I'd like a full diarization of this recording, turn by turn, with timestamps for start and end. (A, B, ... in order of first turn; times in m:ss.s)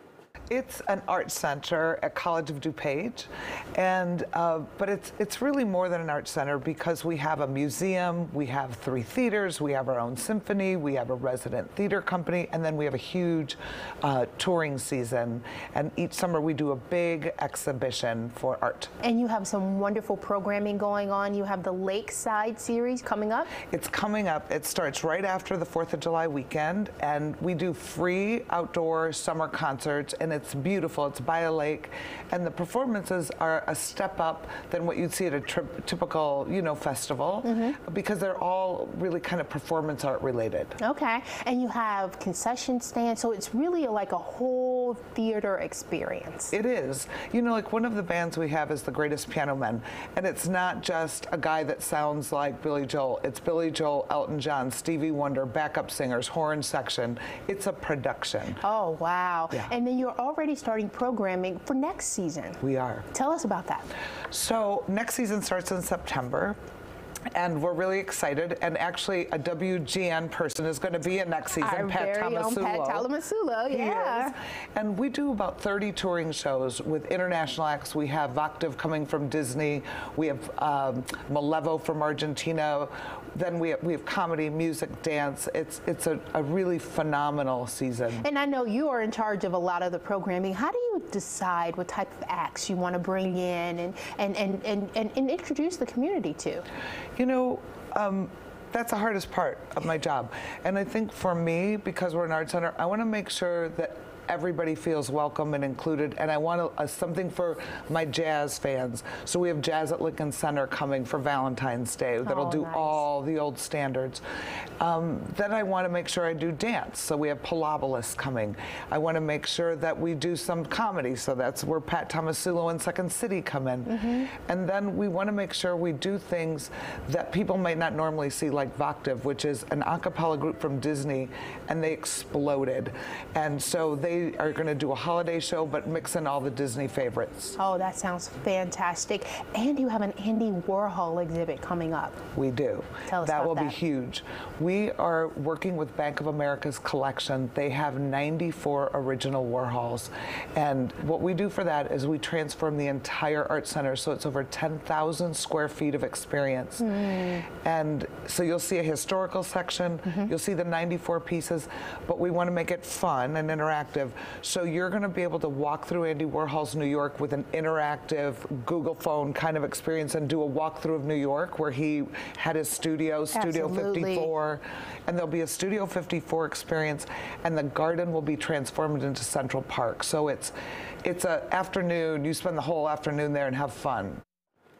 0:00.5-0:18.9 A
0:19.0-0:23.5 B
0:23.6-0:40.8 A
0:37.4-0:37.8 B
0:40.8-0:46.5 B
0:46.5-0:58.6 A
0:58.6-1:02.6 B
1:02.6-1:03.1 A
1:03.1-1:03.8 B
1:04.3-1:06.6 A
1:07.3-1:13.1 A
1:11.6-1:14.3 B
1:13.7-1:28.2 A
1:28.2-1:36.6 B
1:37.2-1:54.2 A
1:52.2-1:53.0 B
1:54.8-2:17.6 A
2:17.6-2:22.1 B
2:22.3-3:04.2 A
2:23.1-2:23.7 B
2:53.3-2:54.3 B